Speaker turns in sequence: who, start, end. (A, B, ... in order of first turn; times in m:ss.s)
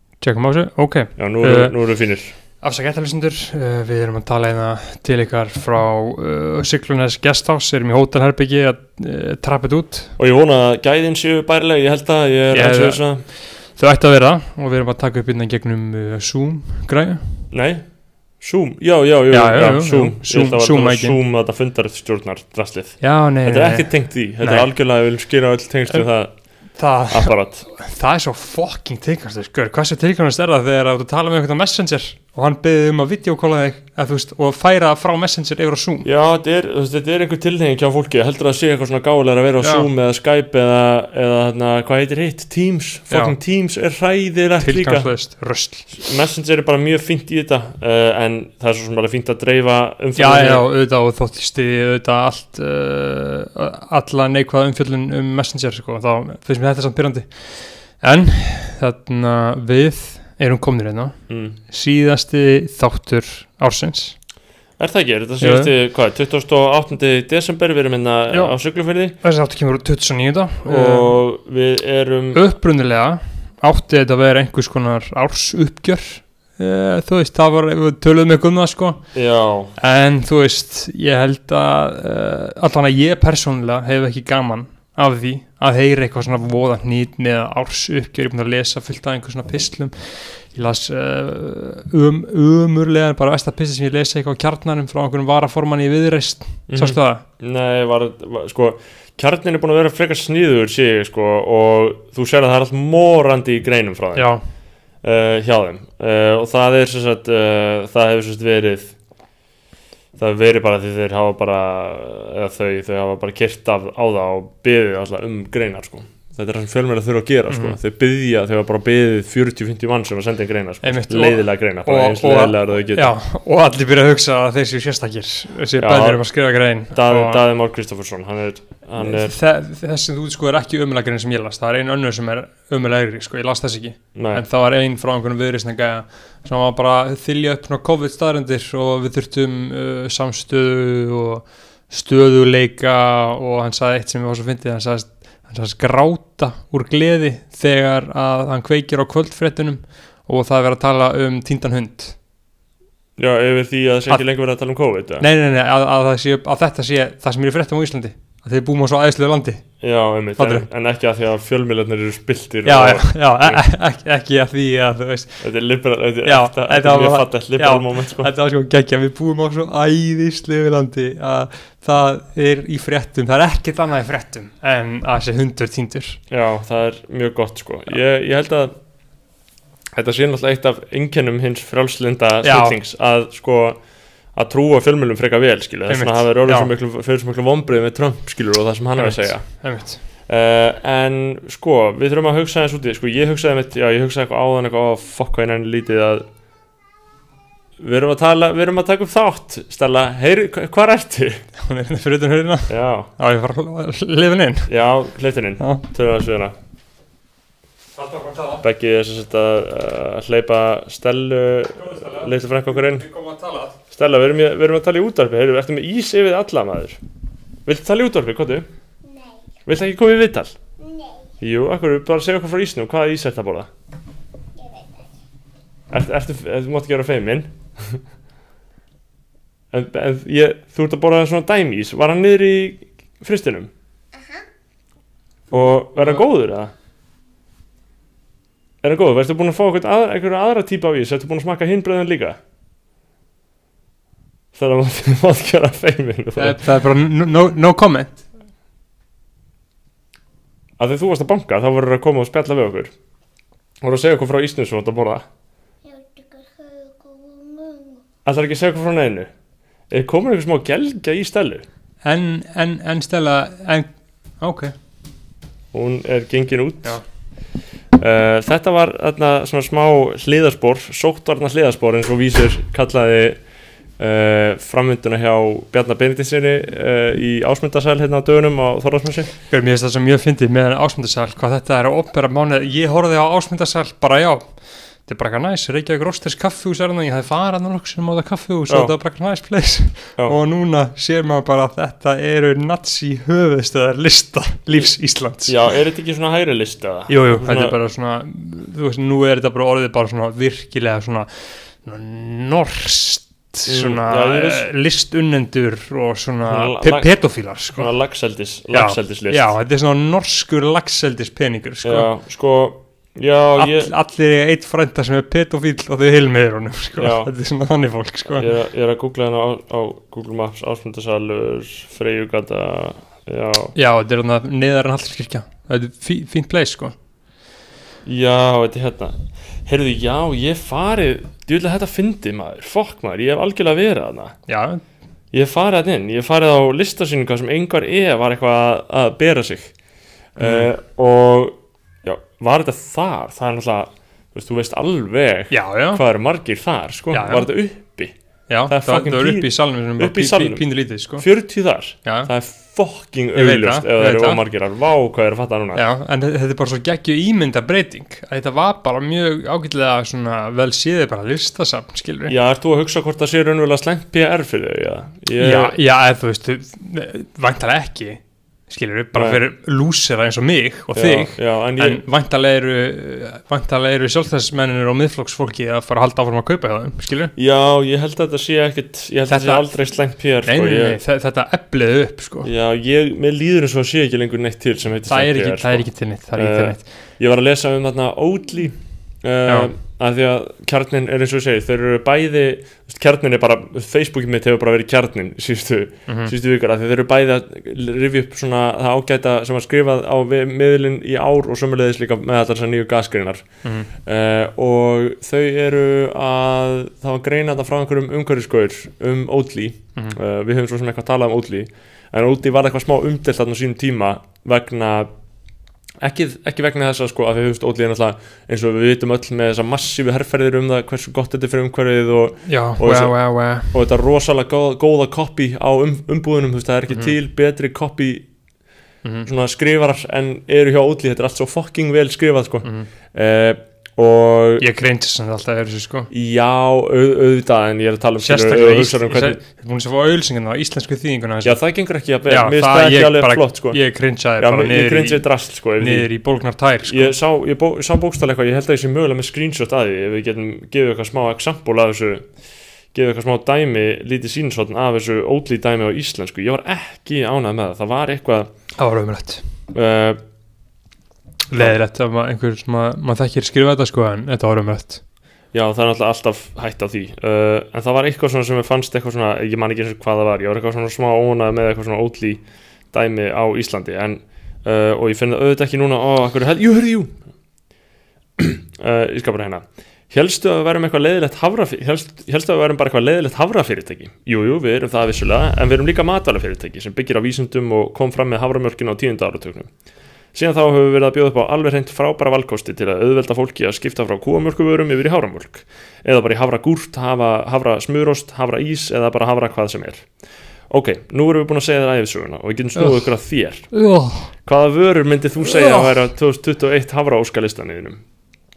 0:00.2-0:10.2 A
0:01.2-0:02.4 B
0:10.2-0:13.2 B
0:12.5-0:17.5 A
0:17.5-0:27.7 B
0:19.3-0:21.2 A
0:23.0-0:24.7 A
0:25.9-0:36.1 A
0:36.0-0:50.7 B
0:39.6-0:39.9 A
0:43.1-0:43.4 A
0:44.6-0:46.1 A
0:50.2-1:04.2 A
1:01.3-1:01.6 B
1:04.8-1:09.2 B
1:05.4-1:05.7 A
1:08.3-1:11.2 A
1:10.6-1:12.4 B
1:12.3-1:37.2 A
1:19.1-1:19.7 B
1:36.7-1:44.3 B
1:44.2-1:44.4 A
1:45.0-1:49.0 B
1:50.2-2:03.1 B
1:57.5-1:57.8 A
2:00.8-2:07.4 A
2:05.8-2:09.3 B
2:09.0-2:32.2 A
2:14.1-2:14.4 B
2:33.2-2:35.3 B
2:34.1-2:40.7 A
2:39.8-2:43.7 B
2:42.6-2:56.2 A
2:45.4-2:48.3 B
2:56.3-2:58.7 B
2:59.9-3:16.3 B
3:02.4-3:02.8 A
3:05.9-3:06.7 A
3:09.0-3:10.0 A
3:17.8-3:21.4 B
3:21.6-3:24.7 A
3:22.7-3:23.1 B
3:24.7-3:26.6 B
3:25.6-3:25.8 A
3:28.0-3:28.6 A
3:28.6-3:33.1 B
3:31.8-3:33.8 A
3:33.9-3:37.0 B
3:37.7-3:38.7 B
3:39.0-3:39.5 C
3:39.7-3:40.6 B
3:40.8-3:41.3 C
3:41.4-3:43.7 B
3:44.6-3:45.1 C
3:45.9-3:48.0 B
3:49.7-3:53.7 B
3:54.1-3:54.4 C
3:55.5-3:56.7 B
3:58.8-4:02.4 B
4:04.5-4:06.7 B
4:06.4-4:08.2 A
4:10.8-4:12.9 B
4:13.8-4:15.3 B
4:15.8-4:18.0 C
4:18.2-4:19.3 B
4:19.9-4:21.6 B
4:22.0-4:24.7 A
4:25.7-4:27.2 B
4:27.9-4:39.3 B
4:39.5-4:55.6 A
4:48.7-4:49.0 B
4:54.7-4:57.8 B
4:57.1-5:07.9 A
5:03.7-5:04.7 B
5:06.5-5:09.5 B
5:08.7-5:12.1 A
5:11.8-5:13.9 B
5:13.6-5:18.5 A
5:17.0-5:17.3 B
5:18.3-5:23.7 B
5:23.8-5:27.0 A
5:28.0-5:34.4 B
5:34.5-5:34.8 A
5:35.3-5:39.8 B
5:40.3-5:55.8 B
5:40.4-5:40.7 A
5:45.5-5:46.0 A
5:47.1-5:47.5 A
5:48.5-5:51.3 A
5:52.0-5:52.3 A
5:53.3-5:54.4 A
5:55.7-6:02.3 A
6:02.3-6:05.8 B
6:05.4-6:17.3 A
6:09.1-6:09.4 B
6:10.9-6:12.0 B
6:17.4-6:21.0 B
6:19.3-6:22.5 A
6:22.4-6:55.1 B
6:25.1-6:26.9 A
6:29.4-6:29.7 A
6:36.1-6:36.3 A
6:43.6-6:43.9 A
6:56.0-7:08.4 B
7:02.4-7:03.8 A
7:06.9-7:07.1 A
7:09.0-7:09.3 A
7:09.2-7:14.6 B
7:12.6-7:12.9 A
7:14.6-7:16.1 A
7:16.1-7:19.4 B
7:18.2-7:27.2 A
7:21.4-7:26.2 B
7:26.8-7:38.5 B
7:38.8-7:39.6 A
7:39.7-7:40.2 B
7:41.5-7:45.0 A
7:45.5-7:57.2 B
7:58.4-8:09.7 B
8:10.3-8:28.0 B
8:22.8-8:24.4 A
8:25.4-8:26.1 A